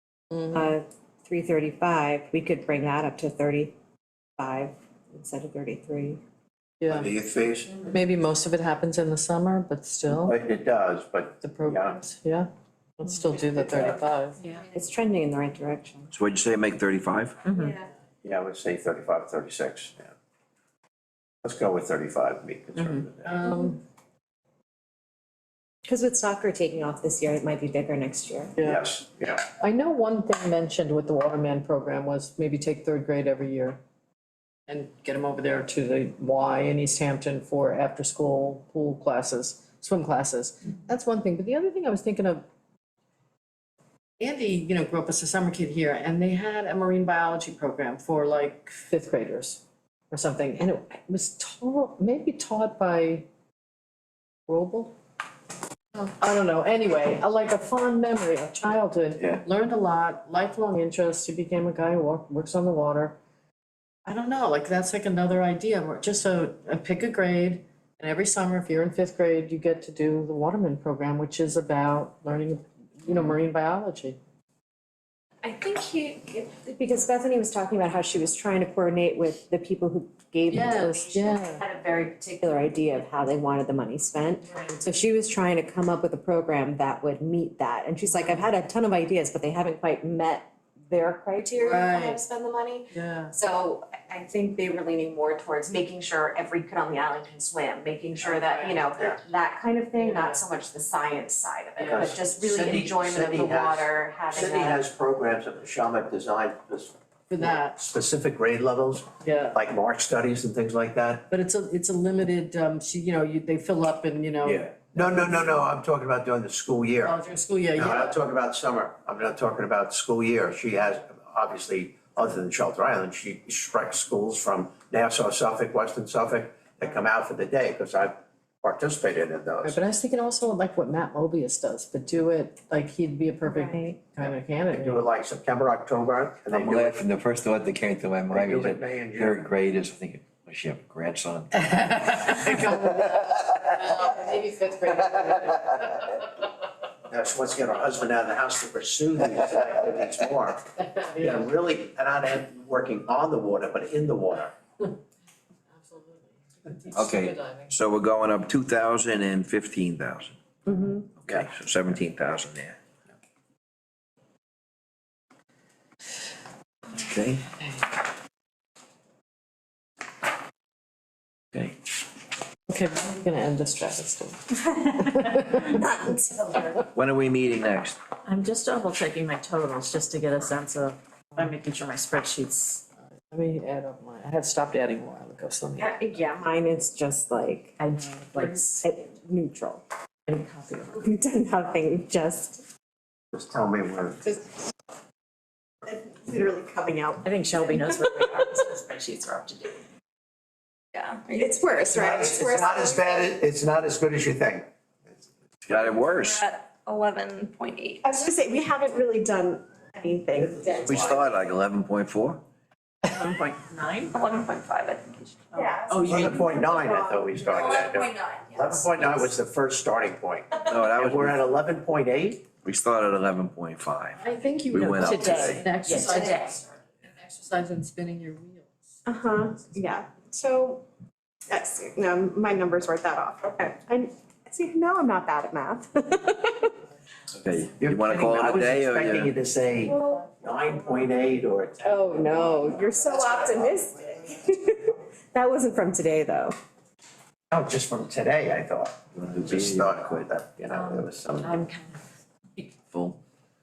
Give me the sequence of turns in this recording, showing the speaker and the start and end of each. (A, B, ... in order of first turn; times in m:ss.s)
0:00.5-0:03.8 A
0:04.4-0:06.2 A
0:06.8-0:07.1 B
0:06.9-0:07.7 C
0:07.0-0:07.5 D
0:07.8-0:10.4 B
0:10.2-0:12.0 C
0:11.4-0:12.5 B
0:13.0-0:14.4 B
0:14.7-0:16.1 A
0:16.1-0:17.4 D
0:17.4-0:17.8 E
0:18.2-0:20.1 C
0:21.4-0:23.4 C
0:23.2-0:23.8 B
0:25.8-0:28.5 A
0:28.6-0:28.9 B
0:28.6-0:29.5 C
0:29.5-0:33.8 B
0:34.7-0:42.4 B
0:44.2-0:53.3 B
0:54.5-0:55.0 B
0:56.0-1:03.2 B
1:04.1-1:14.2 B
1:15.4-1:44.8 A
1:20.5-1:21.6 B
1:31.6-1:32.2 B
1:32.9-1:33.3 B
1:38.3-1:38.8 B
1:40.0-1:40.4 B
1:41.8-1:42.2 B
1:41.9-1:51.3 C
1:47.3-1:47.8 B
1:49.2-1:49.6 B
1:51.3-1:54.7 B
1:54.4-1:54.8 D
1:54.9-1:57.2 C
1:57.0-1:58.2 B
1:57.8-2:09.8 C
2:09.6-2:15.0 B
2:13.5-2:14.0 A
2:14.3-2:17.0 C
2:16.5-2:21.5 D
2:18.3-2:19.5 C
2:22.0-2:26.1 B
2:27.1-2:34.6 C
2:31.0-2:31.5 B
2:35.8-2:37.7 B
2:37.0-2:40.4 D
2:40.7-2:41.1 A
2:41.2-2:42.8 D
2:47.0-2:47.4 D
2:52.7-2:55.8 B
2:56.9-2:58.0 D
2:58.2-3:02.8 E
3:03.3-3:05.9 B
3:05.8-3:07.8 A
3:07.8-3:08.8 E
3:08.4-3:09.8 A
3:10.3-3:11.0 E
3:10.9-3:12.6 A
3:13.3-3:14.2 C
3:15.9-3:18.2 A
3:17.2-3:19.8 E
3:20.9-3:22.2 F
3:21.4-3:23.3 A
3:21.9-3:24.7 C
3:25.7-3:26.4 D
3:26.2-3:28.1 F
3:28.0-3:31.3 A
3:30.8-3:32.4 D
3:33.1-3:34.2 E
3:34.1-3:35.4 F
3:35.5-3:36.5 E
3:35.5-3:37.8 A
3:36.0-3:42.5 C
3:37.6-3:38.8 F
3:40.6-3:41.4 D
3:42.6-3:45.7 D
3:44.2-3:48.7 B
3:45.0-3:46.6 E
3:49.1-3:50.8 A
3:51.5-3:56.7 A
3:57.4-3:59.3 D
3:57.8-4:02.5 C
3:59.8-4:00.3 A
4:01.8-4:06.6 A
4:07.5-4:11.6 C
4:09.2-4:10.2 D
4:10.7-4:12.0 E
4:12.9-4:13.2 D